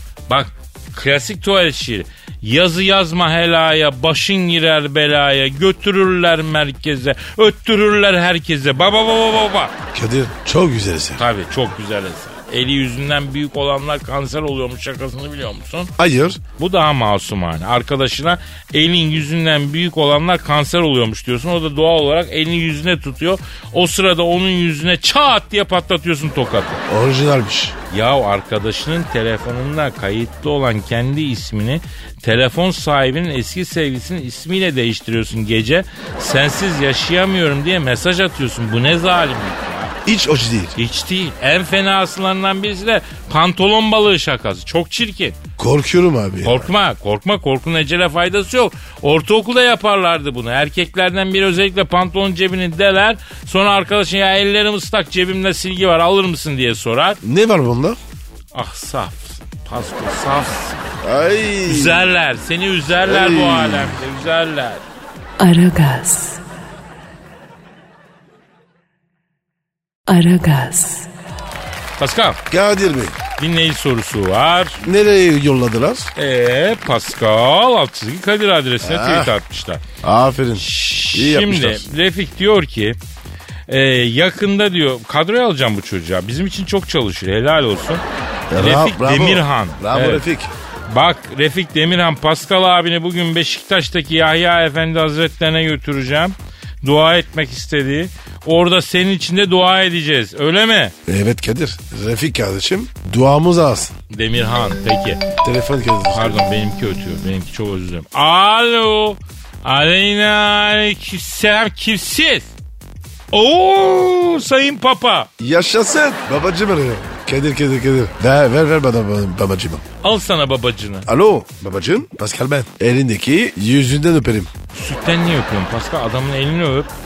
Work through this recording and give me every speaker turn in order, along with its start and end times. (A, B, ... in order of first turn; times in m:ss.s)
0:00.3-0:09.7 A
0:09.9-0:11.2 B
0:11.2-0:15.9 A
0:16.0-0:16.4 B
0:16.6-0:26.8 A
0:26.9-0:27.8 B
0:27.9-0:40.0 A
0:40.0-0:40.8 B
0:40.8-0:45.4 A
0:45.6-0:46.7 B
0:46.4-0:57.2 A
0:57.2-0:58.0 B
0:58.5-1:01.0 A
1:01.0-1:02.1 B
1:01.7-1:04.8 A
1:03.0-1:04.0 B
1:05.4-1:06.4 C
1:10.1-1:11.1 C
1:12.0-1:12.4 A
1:12.5-1:13.2 B
1:13.4-1:14.8 A
1:14.8-1:16.1 B
1:16.2-1:19.8 A
1:18.8-1:19.3 B
1:20.0-1:21.9 B
1:20.6-1:23.0 A
1:23.7-1:28.0 A
1:28.5-1:30.5 B
1:28.6-1:30.2 A
1:30.9-1:41.0 A
1:41.1-1:44.0 B
1:44.1-1:45.2 A
1:45.4-1:46.4 B
1:46.1-1:52.5 A
1:53.3-1:55.3 A
1:55.4-1:59.8 B
2:00.0-2:01.1 A
2:01.1-2:04.5 B
2:04.7-2:06.9 A